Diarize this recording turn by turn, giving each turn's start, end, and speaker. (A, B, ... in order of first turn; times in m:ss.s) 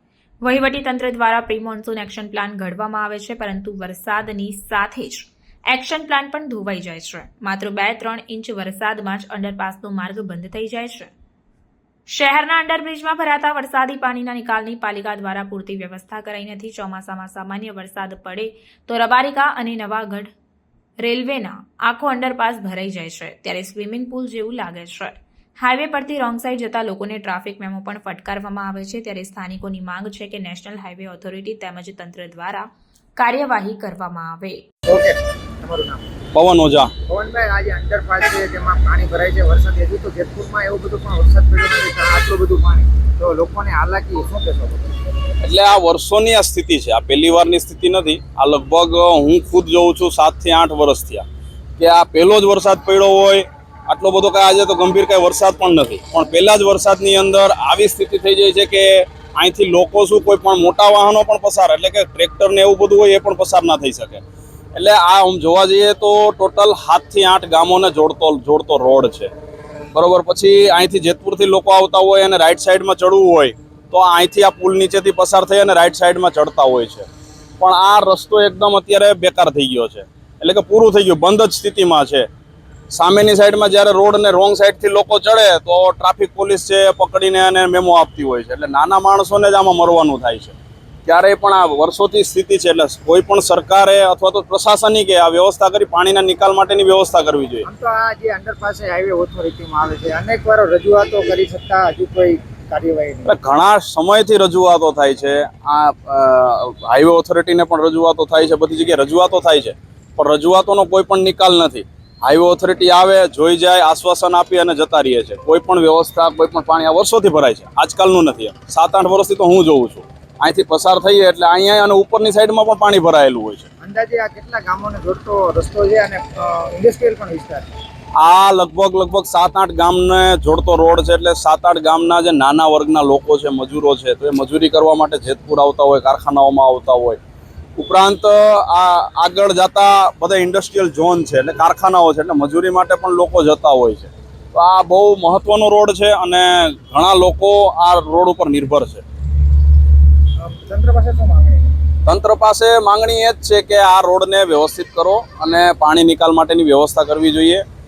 0:00.4-0:11.1 A
0:12.1-0:20.3 A
0:21.0-0:34.6 A
0:34.9-0:36.1 B
0:36.3-0:36.9 C
0:37.1-0:44.9 B
0:45.4-0:51.2 C
0:51.8-1:04.2 C
1:04.7-1:09.3 C
1:09.9-1:17.1 C
1:17.6-1:22.3 C
1:22.9-1:37.6 C
1:37.6-1:43.3 B
1:43.2-2:03.7 C
2:03.8-2:07.7 B
2:08.2-2:17.2 C
2:17.8-2:29.0 C
2:30.4-2:31.7 B
2:32.0-2:37.6 C